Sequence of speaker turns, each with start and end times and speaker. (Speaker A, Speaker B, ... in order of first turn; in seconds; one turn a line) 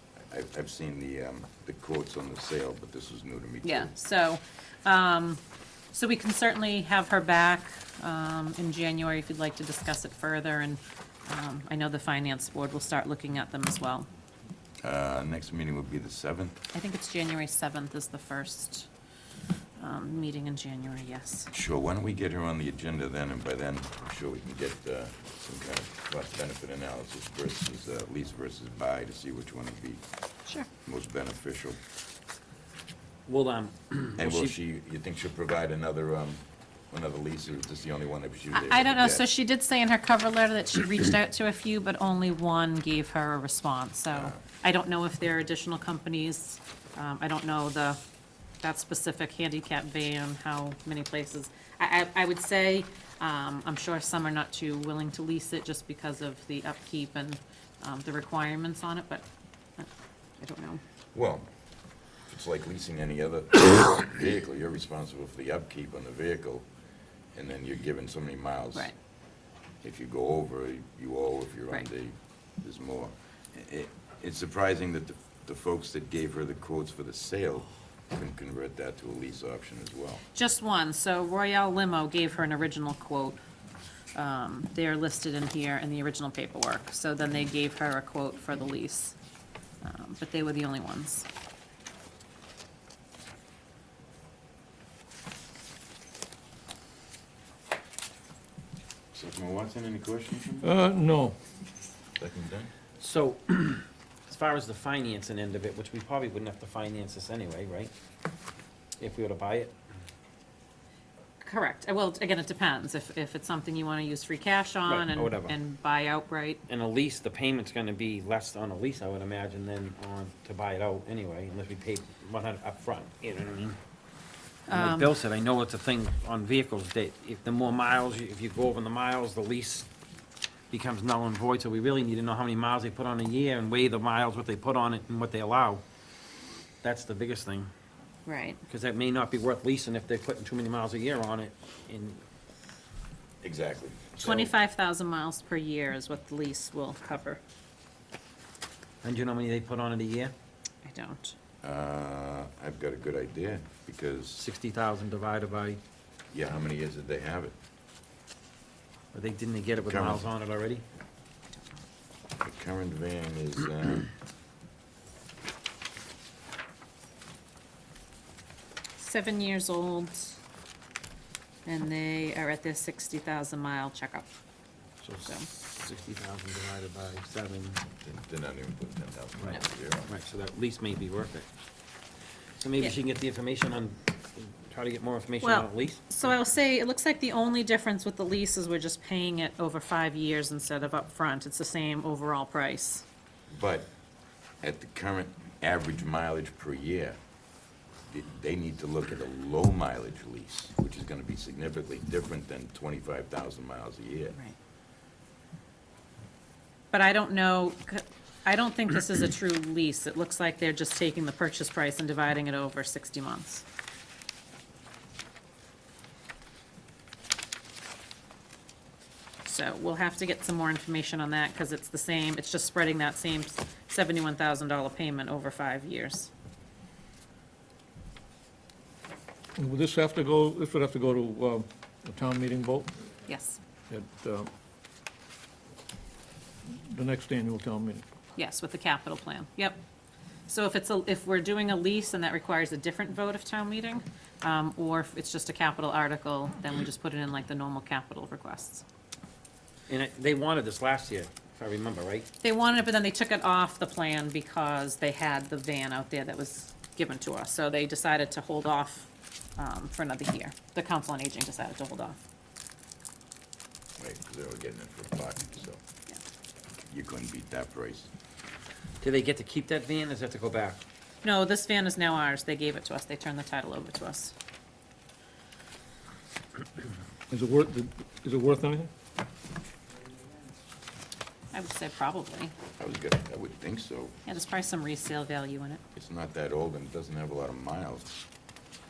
Speaker A: 0.3-3.9
Speaker B: 3.6-5.4
Speaker B: 5.9-14.1
Speaker A: 14.8-16.6
Speaker B: 16.7-18.9
Speaker B: 19.8-21.5
Speaker A: 21.5-30.0
Speaker A: 30.8-31.8
Speaker C: 33.3-34.5
Speaker A: 34.2-39.3
Speaker B: 38.5-48.0
Speaker A: 44.1-44.4
Speaker B: 48.6-59.2
Speaker B: 60.4-60.8
Speaker A: 61.1-61.5
Speaker A: 62.3-66.7
Speaker A: 67.3-68.9
Speaker A: 69.8-80.2
Speaker B: 80.3-83.4
Speaker B: 84.1-89.1
Speaker B: 89.8-91.3
Speaker A: 99.1-100.7
Speaker D: 100.6-101.4
Speaker A: 102.2-102.7
Speaker C: 103.0-107.9
Speaker C: 109.0-109.8
Speaker B: 111.4-116.6
Speaker C: 114.8-115.5
Speaker C: 116.7-123.8
Speaker B: 124.7-125.1
Speaker C: 124.7-129.9
Speaker C: 130.7-135.8
Speaker C: 136.8-137.7
Speaker B: 138.2-138.6
Speaker C: 138.7-142.2
Speaker A: 143.4-144.5
Speaker B: 144.2-147.4
Speaker C: 149.0-150.3
Speaker B: 150.8-151.3
Speaker A: 151.6-154.4
Speaker C: 154.4-155.8
Speaker A: 156.3-157.6
Speaker C: 159.1-160.8
Speaker A: 159.8-160.2
Speaker A: 162.4-164.1
Speaker B: 169.0-170.4
Speaker B: 171.7-174.3
Speaker C: 175.0-177.8
Speaker A: 178.0-180.1
Speaker C: 179.4-181.5
Speaker C: 182.6-186.0
Speaker B: 185.4-193.0
Speaker A: 193.5-193.9
Speaker A: 194.6-197.2
Speaker A: 198.1-204.4
Speaker B: 206.9-213.6
Speaker B: 219.4-226.3
Speaker D: 229.6-232.9
Speaker B: 233.3-233.6
Speaker D: 233.9-234.5
Speaker D: 236.9-238.0
Speaker B: 238.3-239.8
Speaker B: 240.5-248.8
Speaker C: 249.9-252.3
Speaker B: 252.4-262.1
Speaker A: 264.0-265.8
Speaker A: 266.9-268.1
Speaker C: 269.0-270.8
Speaker B: 271.2-274.3
Speaker D: 277.3-278.9
Speaker B: 281.5-282.5
Speaker A: 282.8-284.2
Speaker B: 284.2-285.8
Speaker A: 285.9-288.2